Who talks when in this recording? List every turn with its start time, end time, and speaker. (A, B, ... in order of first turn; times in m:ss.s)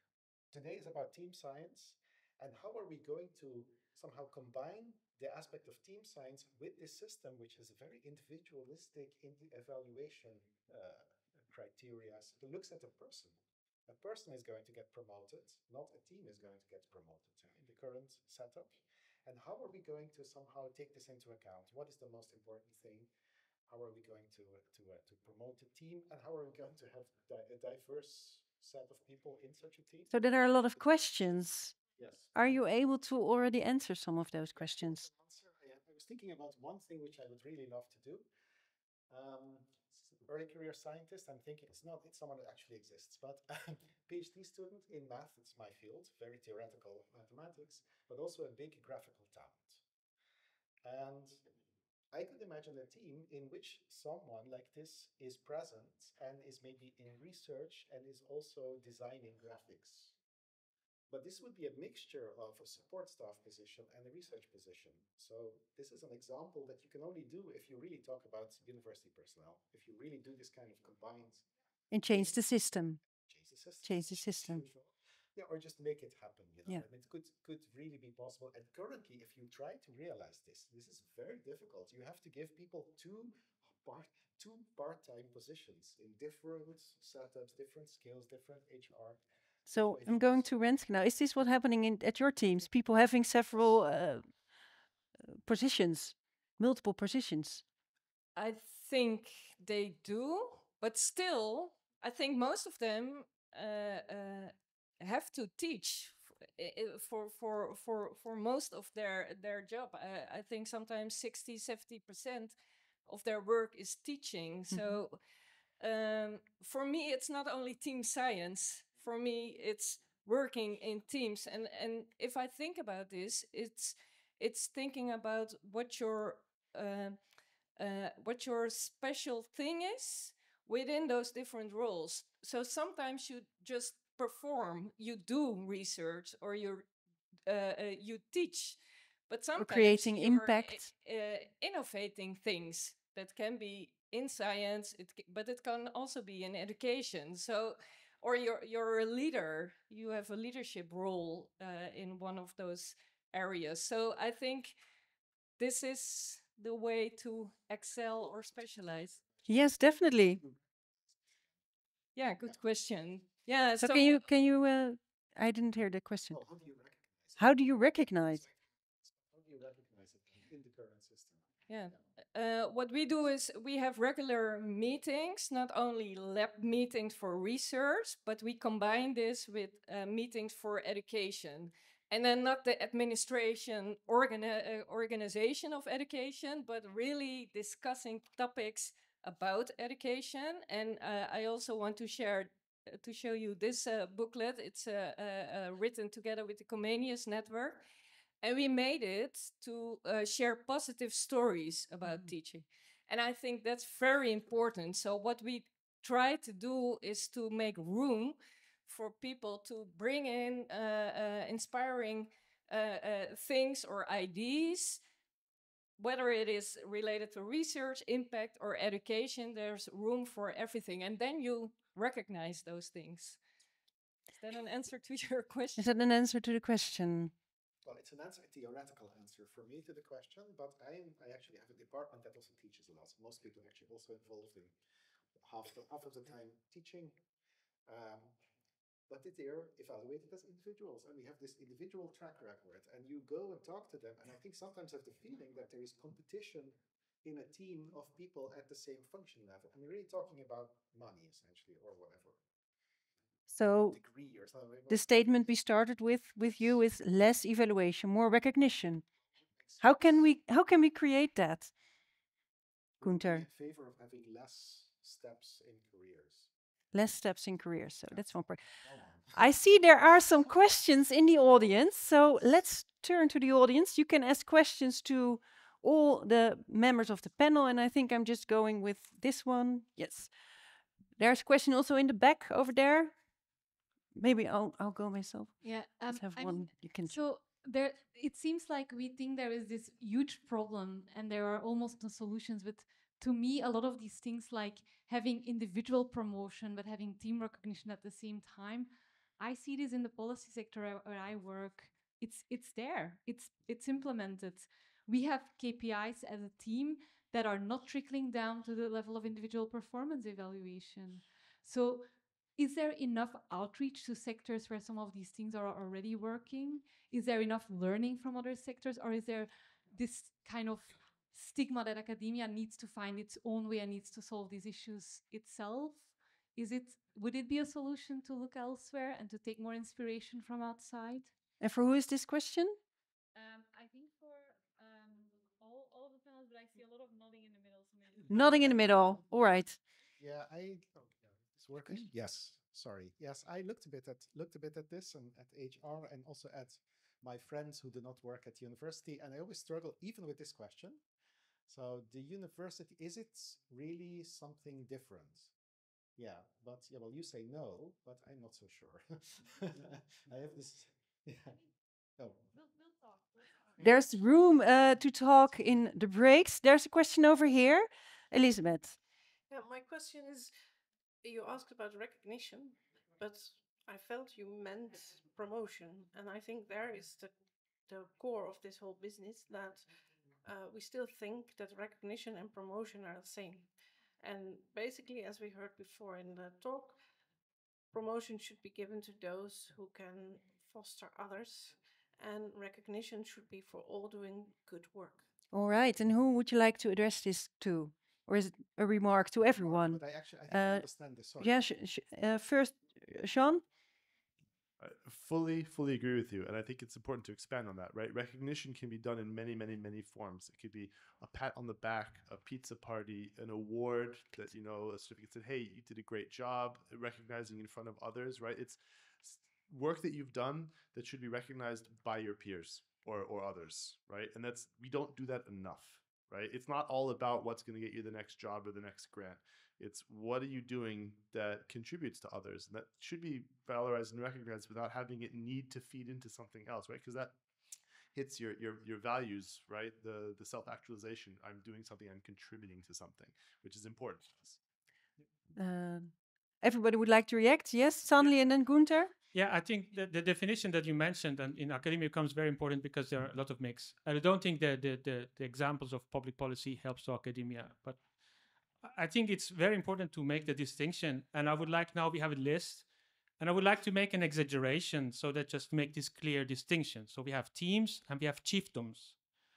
0:00.5-0:23.1 A
0:23.7-0:30.1 A
0:30.1-0:31.8 B
0:32.0-0:32.4 A
0:32.3-0:35.1 B
0:34.6-0:38.3 A
0:39.1-0:49.8 A
0:50.8-0:51.4 A
0:52.1-1:00.2 A
1:01.1-1:11.5 A
1:11.9-1:13.0 B
1:12.1-1:12.4 A
1:13.2-1:30.4 A
1:13.8-1:14.6 B
1:29.7-1:34.2 B
1:33.5-1:33.8 A
1:35.4-1:37.6 B
1:38.4-1:55.2 C
1:55.8-2:07.2 C
2:07.8-2:16.9 C
2:17.5-2:34.8 C
2:19.6-2:20.9 B
2:35.6-2:39.2 C
2:39.5-2:40.4 B
2:42.2-2:44.2 C
2:43.8-2:46.4 B
2:46.3-2:47.5 A
2:47.4-2:48.4 B
2:49.1-2:51.9 A
2:51.7-3:17.8 C
3:18.4-3:35.0 C
3:36.0-3:43.4 C
3:44.3-3:45.8 C
3:45.8-3:47.3 B
3:47.8-3:54.7 A
3:55.4-3:57.2 A
3:57.9-3:58.4 A
3:59.1-4:12.4 A
4:13.5-4:14.0 B
4:13.9-4:15.4 A
4:14.9-4:19.0 B
4:19.6-4:20.2 A
4:19.8-4:21.7 B
4:23.0-4:26.5 A
4:23.0-4:23.5 B
4:26.9-4:28.6 B
4:28.1-4:29.5 A
4:29.3-4:40.3 B
4:41.2-4:43.1 B
4:44.2-4:47.2 B
4:45.6-5:31.3 D
5:31.6-5:32.8 B
5:33.4-5:38.8 D
5:38.3-5:39.8 B
5:40.2-5:51.0 A
5:51.7-5:55.5 A
5:56.2-6:01.6 A
6:02.2-6:02.4 A
6:02.5-6:03.2 D
6:03.8-6:09.0 B
6:09.5-6:10.5 E
6:11.2-6:19.9 E
6:20.4-6:27.0 E
6:27.9-6:35.2 E
6:35.5-6:40.9 B
6:39.4-6:41.6 A
6:41.4-6:43.6 B
6:44.8-7:17.4 F
7:18.1-7:24.6 F
7:25.6-7:29.1 B
7:29.3-7:38.0 G
7:38.8-7:42.9 G
7:43.4-7:49.2 G